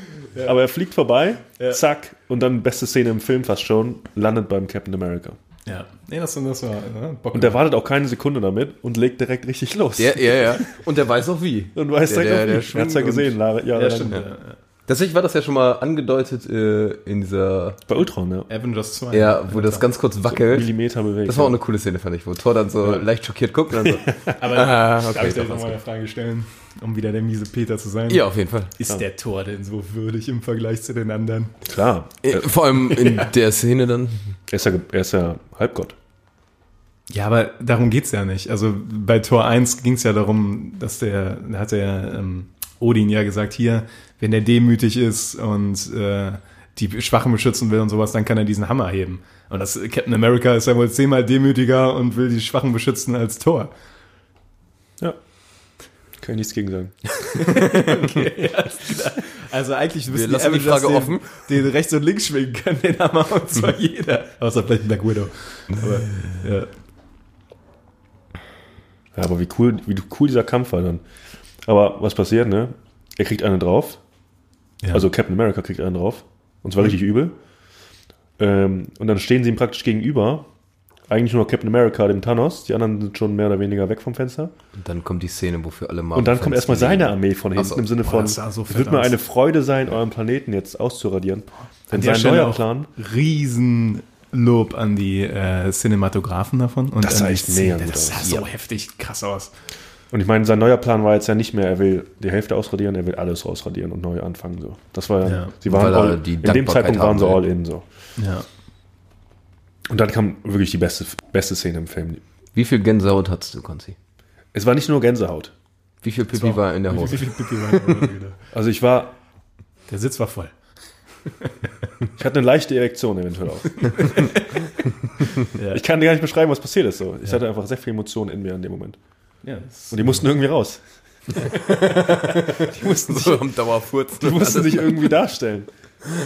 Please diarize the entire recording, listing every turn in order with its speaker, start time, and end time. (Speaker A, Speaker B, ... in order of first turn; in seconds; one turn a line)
Speaker A: 0.4-5.4
Speaker B: 5.7-7.6
Speaker A: 7.3-10.7
Speaker C: 10.0-13.3
Speaker A: 11.8-14.2
Speaker B: 13.7-14.6
Speaker C: 14.9-17.8
Speaker A: 17.9-18.5
Speaker B: 18.5-19.9
Speaker C: 19.1-20.7
Speaker A: 20.3-21.6
Speaker C: 21.2-25.8
Speaker A: 23.9-24.3
Speaker B: 24.3-31.6
Speaker C: 28.1-28.7
Speaker A: 31.6-32.6
Speaker C: 32.2-34.2
Speaker A: 34.5-36.0
Speaker B: 37.1-53.7
Speaker A: 56.2-57.1
Speaker B: 57.4-66.7
Speaker C: 57.5-57.9
Speaker C: 60.1-61.3
Speaker A: 69.2-71.0
Speaker A: 71.7-74.0
Speaker B: 74.8-75.1
Speaker A: 74.9-77.4
Speaker A: 78.4-80.5
Speaker A: 81.1-84.5
Speaker C: 84.8-87.8
Speaker A: 86.2-92.9
Speaker B: 88.0-89.2
Speaker B: 91.9-99.5
Speaker A: 97.0-98.3
Speaker A: 100.1-107.8
Speaker B: 105.2-105.5
Speaker C: 105.7-107.4
Speaker B: 108.2-108.5
Speaker A: 109.9-112.2
Speaker C: 112.5-114.0
Speaker A: 114.5-115.5
Speaker C: 116.0-118.0
Speaker B: 116.3-118.4
Speaker A: 118.5-119.2
Speaker B: 119.9-120.5
Speaker A: 122.2-124.3
Speaker B: 123.8-124.7
Speaker B: 125.5-125.8
Speaker A: 125.6-129.0
Speaker B: 129.4-130.3
Speaker A: 129.9-130.8
Speaker B: 131.6-132.1
Speaker C: 131.6-135.2
Speaker A: 132.5-133.4
Speaker A: 134.2-135.7